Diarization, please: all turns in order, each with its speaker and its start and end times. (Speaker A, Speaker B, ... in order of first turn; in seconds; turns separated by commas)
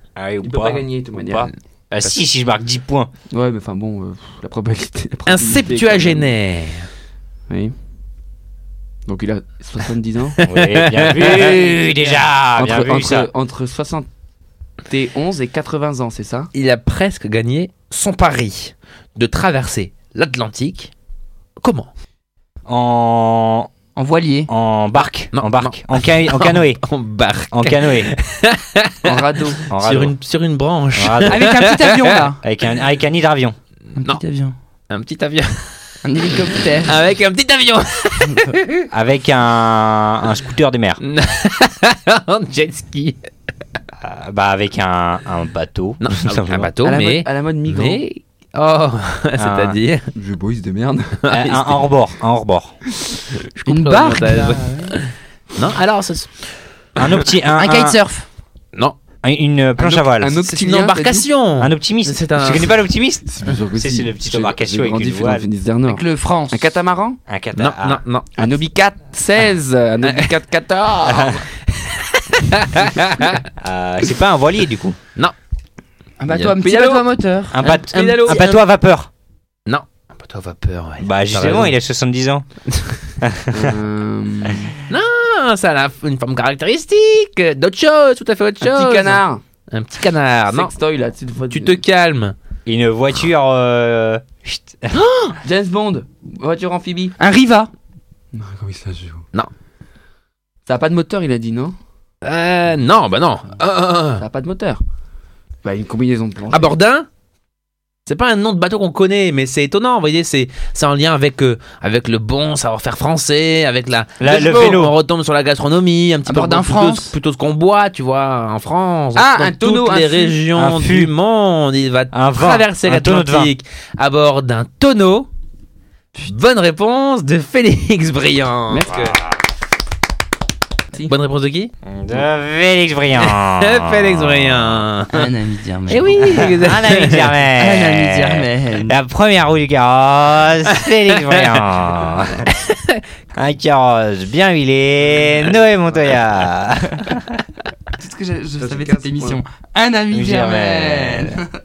Speaker A: 0.1-3.1, Speaker B: 0.4-1.5, Speaker B: 3.3-6.3, Speaker C: 5.2-6.9, Speaker B: 7.5-7.7, Speaker B: 9.1-10.4, Speaker C: 10.4-11.6, Speaker A: 10.4-13.3, Speaker B: 11.2-14.1, Speaker B: 14.9-16.5, Speaker C: 16.5-20.9, Speaker C: 21.6-21.9, Speaker A: 22.7-23.7, Speaker D: 23.9-24.5, Speaker A: 24.5-26.8, Speaker C: 25.3-32.3, Speaker A: 27.5-28.1, Speaker B: 29.0-29.6, Speaker A: 29.7-30.1, Speaker A: 30.9-31.5, Speaker D: 31.2-32.4, Speaker A: 32.4-33.5, Speaker D: 34.0-34.5, Speaker C: 34.9-35.9, Speaker D: 36.0-36.9, Speaker C: 36.8-38.8, Speaker A: 38.9-41.0, Speaker C: 41.0-43.2, Speaker A: 44.0-46.7, Speaker C: 46.0-50.1, Speaker B: 46.8-48.0, Speaker A: 49.4-49.8, Speaker B: 50.1-51.2, Speaker C: 51.2-51.7, Speaker A: 51.3-52.7, Speaker C: 53.4-56.5, Speaker D: 53.7-54.9, Speaker A: 57.0-58.0, Speaker D: 57.5-58.2, Speaker A: 59.2-60.4, Speaker B: 59.8-61.3, Speaker C: 60.4-62.8, Speaker A: 61.6-65.5, Speaker B: 63.3-67.2, Speaker D: 65.8-66.7, Speaker A: 67.3-68.0, Speaker C: 67.5-68.3, Speaker B: 68.3-71.5, Speaker C: 70.0-70.3, Speaker A: 71.0-71.4, Speaker C: 71.8-73.5, Speaker A: 73.6-75.0, Speaker D: 76.2-78.4, Speaker C: 76.3-77.0, Speaker B: 76.6-77.0, Speaker A: 77.5-79.1, Speaker C: 77.6-78.6, Speaker C: 79.7-81.8, Speaker A: 81.0-82.5, Speaker A: 83.2-83.8, Speaker B: 83.5-84.8, Speaker C: 84.9-90.7, Speaker B: 88.6-89.4, Speaker B: 90.5-91.8, Speaker C: 91.5-92.3, Speaker A: 92.7-95.0, Speaker B: 95.4-97.1, Speaker D: 97.2-97.7, Speaker B: 98.3-99.2, Speaker B: 100.7-101.8, Speaker C: 102.2-104.2, Speaker B: 104.2-104.8, Speaker B: 105.6-106.7, Speaker C: 106.5-107.1, Speaker C: 108.0-125.3, Speaker A: 114.2-114.9, Speaker D: 116.2-117.1, Speaker B: 119.1-120.4, Speaker A: 120.5-121.1, Speaker A: 122.1-123.5, Speaker C: 126.2-129.2, Speaker B: 128.7-129.1, Speaker A: 128.9-129.3, Speaker C: 131.0-131.7, Speaker A: 131.8-134.8, Speaker C: 133.2-135.3, Speaker D: 135.1-136.6, Speaker C: 135.9-137.3, Speaker A: 136.3-142.5, Speaker D: 137.6-138.9, Speaker C: 140.7-141.6, Speaker C: 142.5-143.0, Speaker A: 143.3-147.4, Speaker D: 148.0-151.5, Speaker B: 148.6-149.4, Speaker A: 150.1-151.4